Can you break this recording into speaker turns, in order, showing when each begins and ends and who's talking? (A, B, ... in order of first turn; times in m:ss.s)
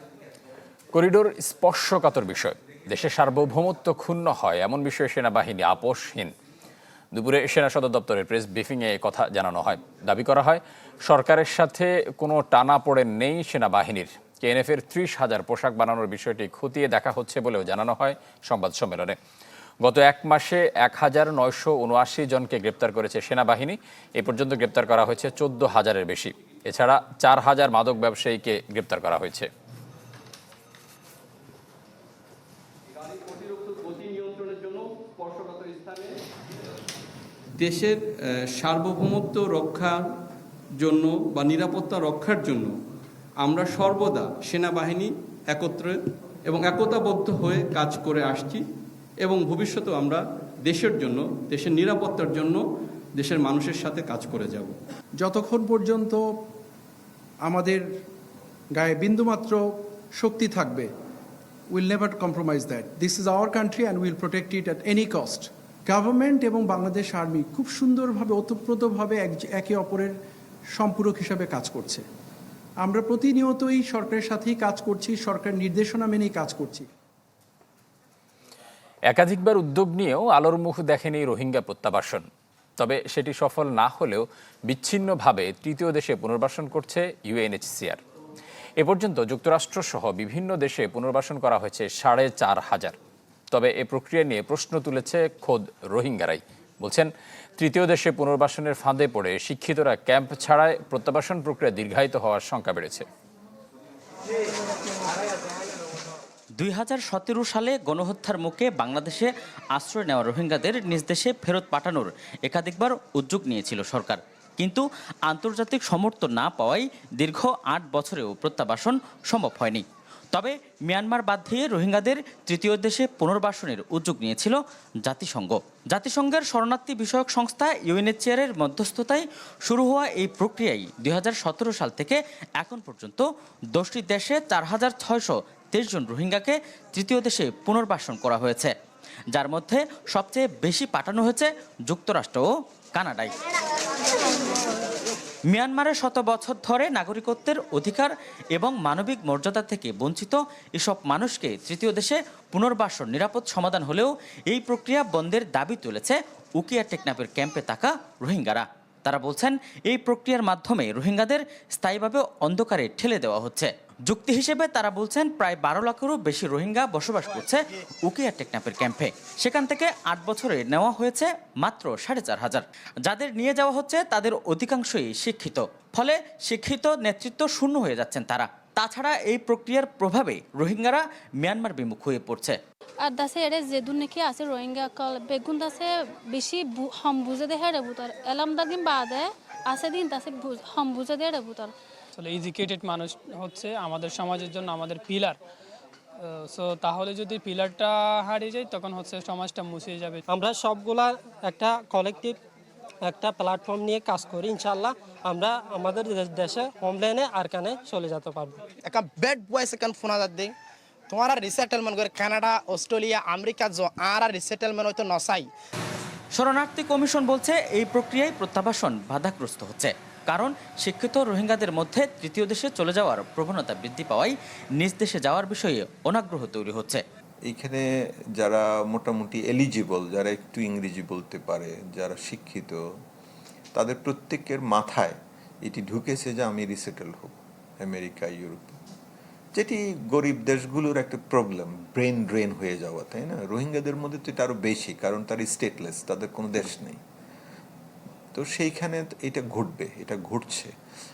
0:00.9-0:06.3 A
0:07.1-0:19.2 A
0:19.8-0:29.5 A
0:33.0-0:36.2 B
0:37.6-0:38.0 B
0:38.6-0:40.1 B
0:40.8-0:42.7 B
0:43.4-0:48.6 B
0:49.2-0:52.6 B
0:53.2-0:54.8 B
0:55.2-0:56.2 C
0:57.4-0:57.9 C
0:58.8-0:59.6 C
1:00.2-1:00.9 C
1:01.7-1:10.2 C
1:10.8-1:12.0 C
1:12.8-1:16.9 C
1:19.1-1:28.0 A
1:28.8-1:33.0 A
1:33.5-1:43.1 A
1:46.6-2:18.7 D
2:19.3-2:23.3 D
2:25.5-3:02.6 D
3:03.0-3:11.7 E
3:12.2-3:15.4 F
3:16.2-3:20.2 F
3:20.3-3:22.4 G
3:23.0-3:28.7 G
3:28.9-3:30.5 H
3:31.1-3:35.5 H
3:36.3-3:47.0 D
3:47.5-3:47.8 I
3:48.4-3:52.8 I
3:53.7-3:58.8 I
3:59.6-4:07.0 I
4:08.3-4:10.7 I